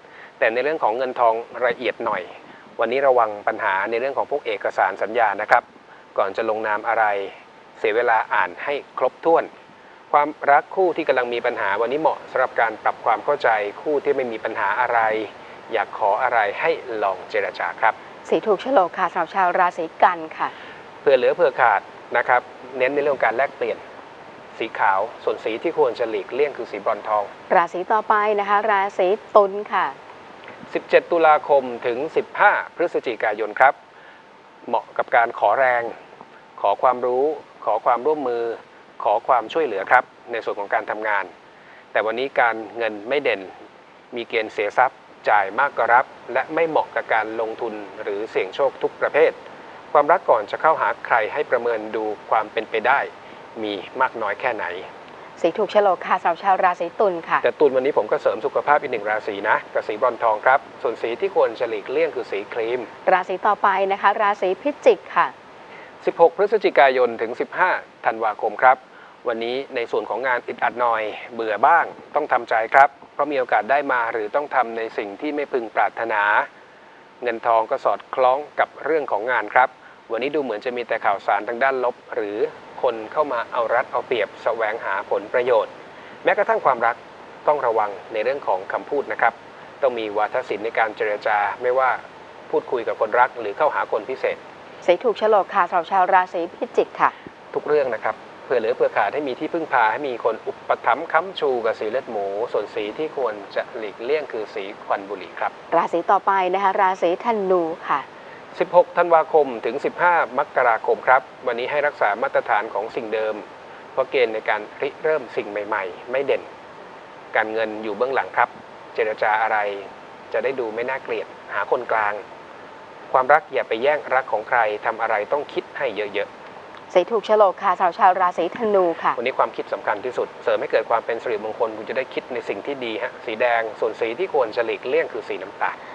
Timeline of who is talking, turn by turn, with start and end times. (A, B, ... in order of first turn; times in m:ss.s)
0:00.4-0:09.5 A
0:10.1-0:18.0 A
0:18.2-0:20.5 B
0:21.0-0:23.8 A
0:24.5-0:27.3 A
0:27.5-0:30.0 B
0:30.7-0:33.7 A
0:34.6-0:35.9 A
0:36.6-0:41.3 A
0:41.9-0:43.5 A
0:44.1-0:49.4 A
0:49.9-0:54.9 A
0:55.4-0:57.4 B
0:57.4-1:02.9 A
1:03.0-1:05.3 B
1:06.0-1:16.4 A
1:17.2-1:25.7 A
1:26.2-1:34.4 A
1:34.8-1:37.1 B
1:37.5-1:45.5 A
1:45.7-1:48.0 B
1:48.5-1:53.4 A
1:53.9-1:56.4 A
1:57.3-2:02.2 A
2:03.1-2:06.3 A
2:06.9-2:09.2 B
2:09.2-2:15.8 A